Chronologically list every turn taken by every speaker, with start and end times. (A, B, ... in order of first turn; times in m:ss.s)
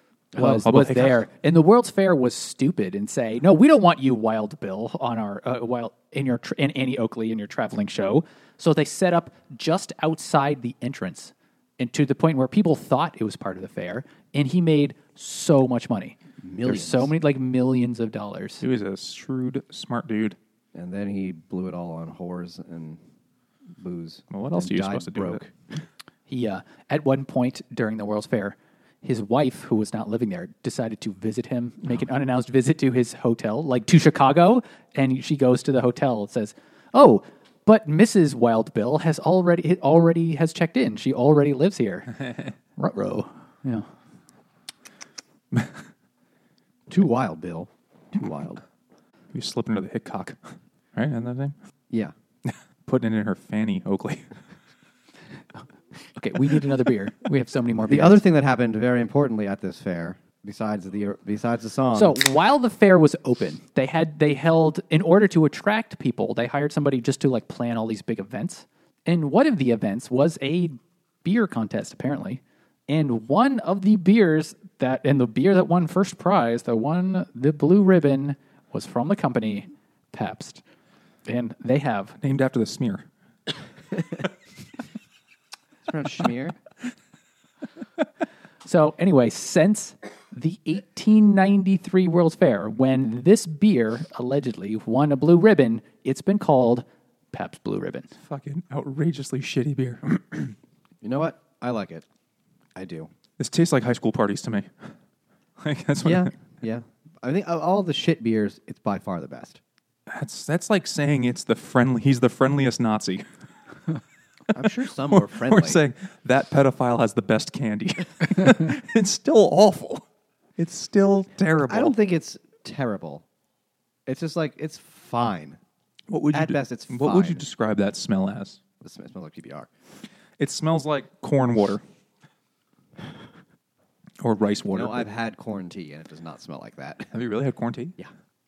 0:00.3-0:18.6 A
0:00.4-0:01.2 B
0:16.4-0:17.1 C
0:18.6-0:20.4 B
0:20.7-0:23.0 C
0:23.8-0:25.5 C
0:24.3-0:25.4 B
0:26.3-0:42.2 A
0:42.8-0:43.9 A
0:46.9-0:48.6 C
0:49.3-0:50.4 B
0:50.9-0:51.5 B
0:52.5-0:54.3 B
0:56.1-0:58.2 A
0:57.9-1:02.2 C
1:01.9-1:20.6 A
1:21.2-1:22.2 A
1:22.2-1:23.0 B
1:25.8-1:26.6 C
1:28.6-1:38.1 A
1:38.2-1:40.6 B
1:41.0-1:42.0 C
1:42.7-1:43.1 C
1:43.4-1:44.7 B
1:45.6-1:46.3 B
1:46.0-1:49.6 C
1:50.1-1:53.2 B
1:54.5-1:55.8 C
1:54.6-2:00.0 B
2:00.6-2:01.9 B
2:01.6-2:03.2 C
2:04.0-2:05.6 C
2:06.1-2:08.6 B
2:06.3-2:07.5 C
2:08.8-2:09.7 C
2:10.4-2:11.8 B
2:14.2-2:15.1 B
2:14.7-2:17.1 C
2:17.1-2:18.0 B